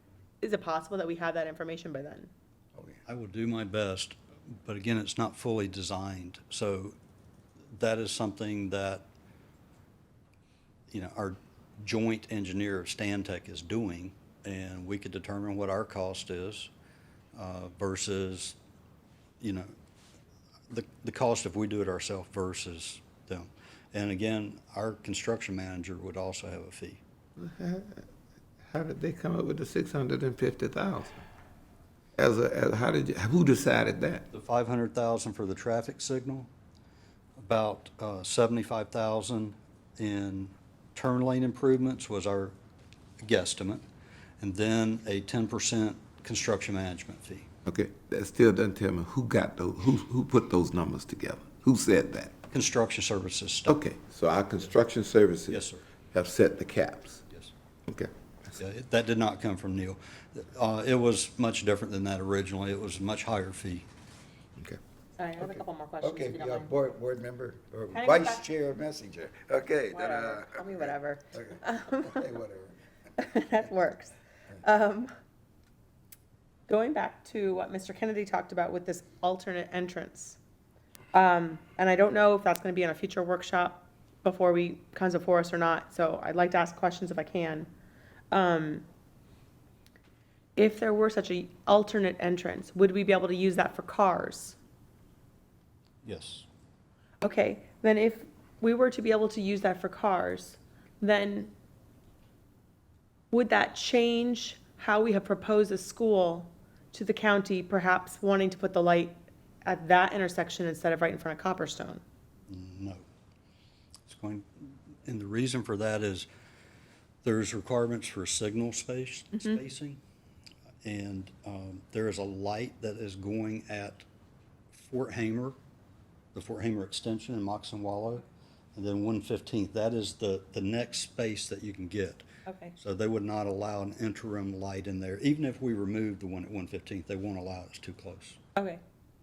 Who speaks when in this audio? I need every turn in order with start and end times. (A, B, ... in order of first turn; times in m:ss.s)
0:00.4-0:02.3 A
0:03.0-0:07.0 B
0:07.7-0:09.0 B
0:10.9-0:16.7 B
0:17.3-0:18.6 B
0:19.4-0:19.7 B
0:20.7-0:27.0 B
0:27.4-0:28.1 C
0:28.6-0:31.2 C
0:32.2-0:34.3 C
0:34.3-0:36.5 B
0:37.4-0:42.5 B
0:43.2-0:43.8 B
0:44.4-0:47.5 B
0:47.6-0:52.3 C
0:52.5-0:53.8 B
0:53.6-0:57.2 C
0:55.5-0:55.8 B
0:58.5-1:03.9 B
1:05.2-1:06.8 A
1:05.4-1:12.8 D
1:07.9-1:08.4 A
1:09.9-1:12.3 A
1:13.2-1:15.1 A
1:16.7-1:20.4 A
1:21.1-1:27.7 A
1:28.3-1:28.8 A
1:30.6-1:34.6 A
1:36.0-1:36.4 B
1:37.2-1:41.5 A
1:43.3-1:52.0 A
1:52.5-1:53.0 B
1:54.0-1:56.3 B
1:57.2-2:00.0 B
2:00.8-2:04.0 B
2:04.7-2:05.6 B
2:06.3-2:08.2 B
2:08.7-2:12.2 B
2:12.4-2:12.7 A
2:12.8-2:18.4 B
2:18.6-2:18.8 A